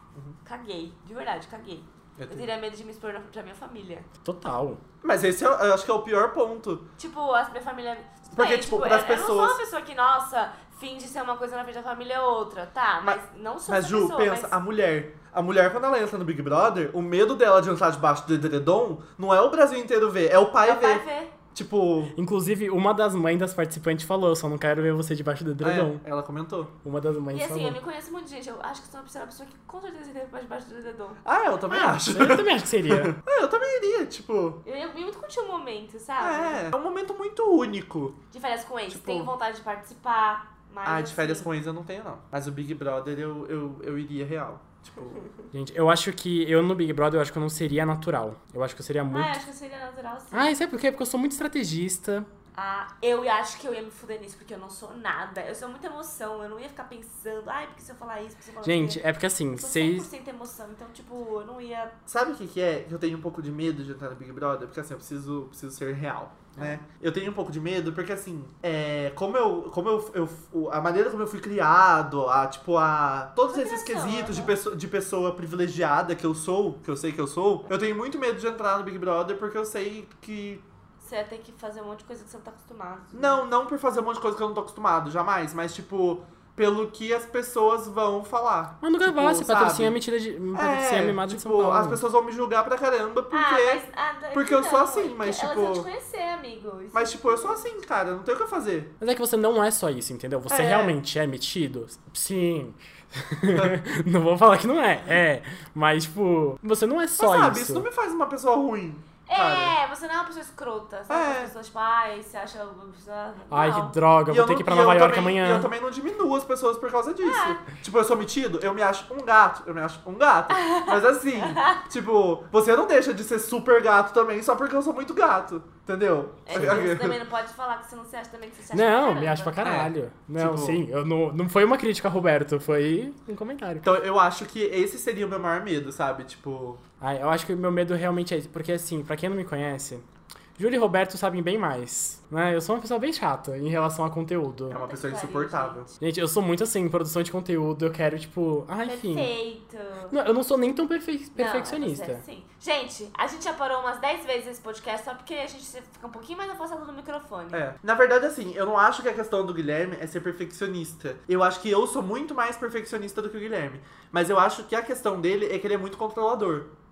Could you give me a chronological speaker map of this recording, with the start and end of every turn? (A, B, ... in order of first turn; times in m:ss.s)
0:00.4-0:04.1 A
0:02.2-0:02.5 B
0:04.2-0:04.8 C
0:05.0-0:06.9 B
0:07.0-0:14.5 A
0:08.3-0:09.6 B
0:13.0-0:22.2 B
0:20.6-0:21.3 A
0:22.2-0:26.0 C
0:25.6-0:26.7 B
0:26.8-0:27.8 C
0:27.3-0:31.2 A
0:31.2-0:34.6 B
0:31.7-0:33.2 C
0:34.6-0:36.7 A
0:36.2-0:38.2 B
0:38.3-0:41.5 A
0:38.9-0:39.3 B
0:40.9-0:45.2 B
0:45.5-0:49.4 C
0:49.1-0:50.5 A
0:50.3-0:52.3 C
0:52.6-1:02.0 A
0:58.6-1:00.1 C
1:02.1-1:20.6 B
1:13.5-1:14.6 A
1:21.0-1:23.4 A
1:23.1-1:30.0 B
1:28.8-1:32.0 C
1:30.5-1:35.9 B
1:33.3-1:37.6 A
1:36.9-1:39.0 B
1:39.0-1:47.9 C
1:40.5-1:41.0 B
1:43.4-1:43.8 B
1:47.2-1:49.8 B
1:49.3-1:54.0 A
1:51.1-1:51.5 B
1:53.5-1:55.7 C
1:54.3-2:07.2 B
1:57.2-1:57.6 A
2:00.5-2:01.8 A
2:06.5-2:09.6 A
2:08.7-2:13.8 C
2:09.6-2:10.8 B
2:13.8-2:16.8 B
2:17.0-2:20.0 C
2:20.6-2:24.8 C
2:24.7-2:25.9 B
2:24.7-2:25.9 A
2:26.0-2:29.3 C
2:28.9-2:30.2 A
2:30.1-2:32.2 C
2:31.4-2:37.6 A
2:37.5-2:46.7 B